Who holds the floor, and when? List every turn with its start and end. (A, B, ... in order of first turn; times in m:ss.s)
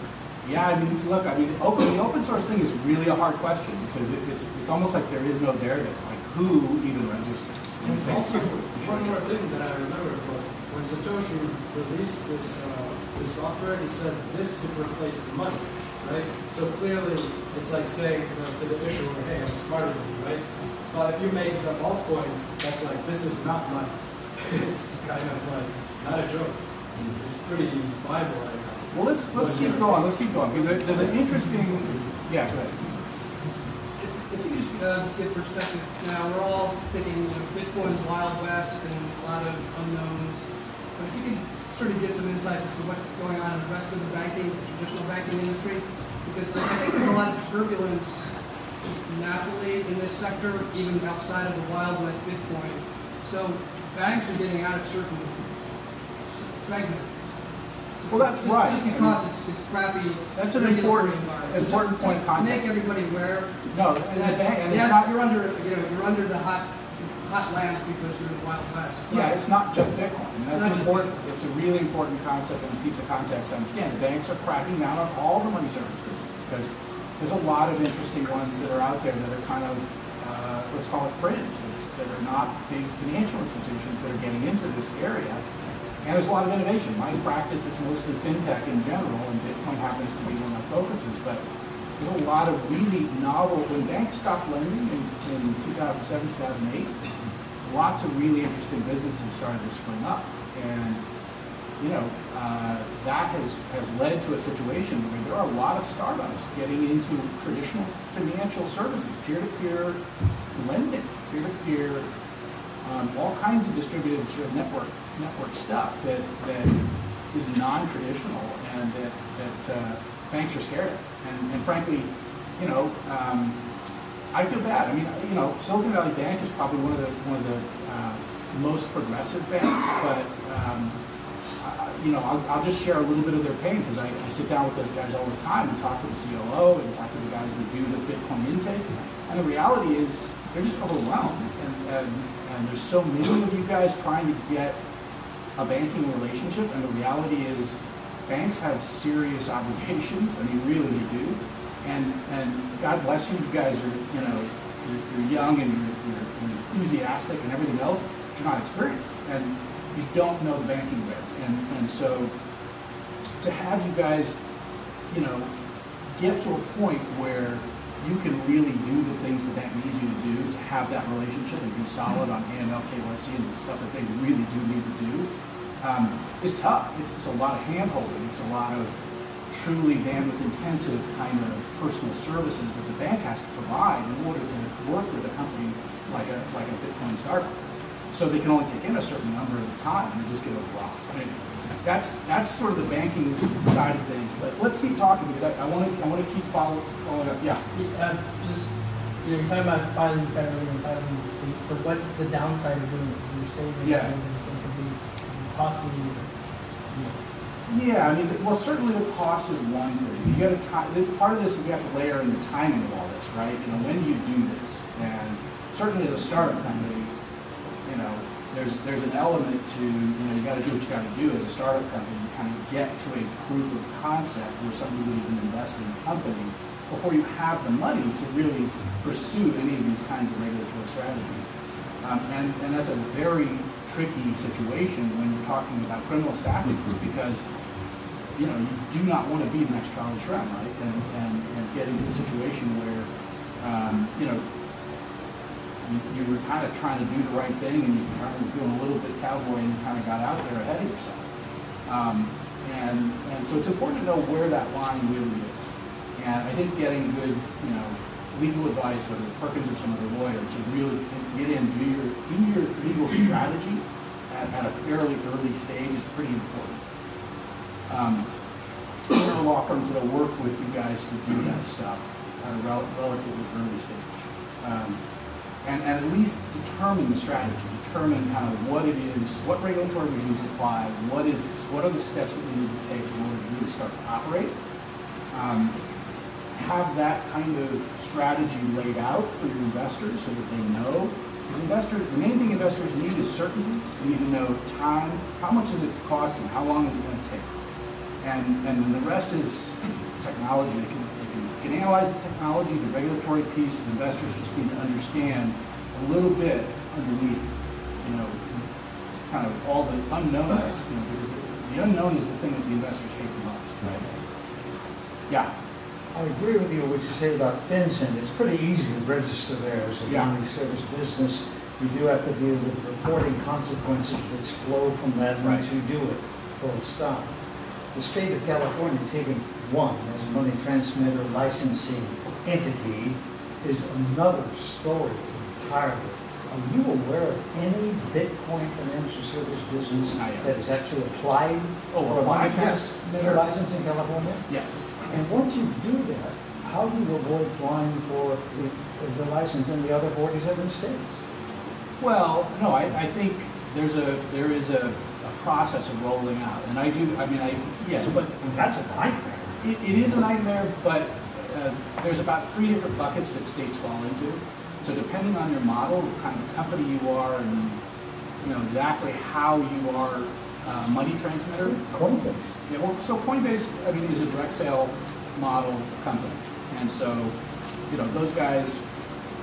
0:00.4-0:09.2 A
0:07.8-0:31.2 B
0:28.9-0:32.7 A
0:34.0-0:40.4 C
0:40.9-0:48.2 C
0:48.8-0:55.4 C
0:56.3-0:57.2 C
0:58.0-1:03.6 C
0:58.1-0:59.2 A
1:00.3-1:02.7 A
1:03.7-1:05.1 A
1:04.1-1:09.4 C
1:09.1-1:25.4 A
1:10.5-1:11.2 C
1:26.0-1:31.4 A
1:32.0-1:36.9 A
1:37.6-1:41.0 A
1:41.8-1:50.0 A
1:50.5-1:52.0 A
1:52.8-1:56.8 A
1:57.3-2:03.6 A
2:04.3-2:11.0 A
2:11.6-2:24.8 A
2:25.6-2:42.3 A
2:43.4-2:44.4 A
2:45.1-2:45.5 A
2:46.2-2:55.3 A
2:55.8-2:58.9 A
2:59.5-3:07.5 A
3:08.1-3:17.6 A
3:17.7-3:26.3 D
3:23.8-3:24.1 A
3:26.9-3:27.2 D
3:27.7-3:37.1 A
3:37.8-3:51.4 A
3:52.0-3:57.4 A
3:58.4-4:03.1 A
4:03.6-4:04.4 A
4:05.8-4:11.2 A
4:11.8-4:26.8 A
4:27.9-4:28.3 A
4:29.1-4:35.0 A
4:35.6-4:44.5 A
4:45.3-4:45.7 A
4:46.5-4:57.5 A
4:58.2-5:07.5 A
5:08.0-5:08.7 A
5:09.3-5:14.0 A
5:16.1-5:27.3 E
5:20.1-5:20.3 A
5:27.9-5:44.4 E
5:40.2-5:40.5 A
5:41.9-5:43.4 A
5:44.5-5:44.8 A
5:45.0-5:51.1 E
5:52.0-5:58.3 A
5:58.0-5:59.5 E
5:59.6-6:07.8 A
6:08.4-6:11.8 A
6:11.6-6:12.5 E
6:12.7-6:17.3 A
6:17.9-6:18.8 A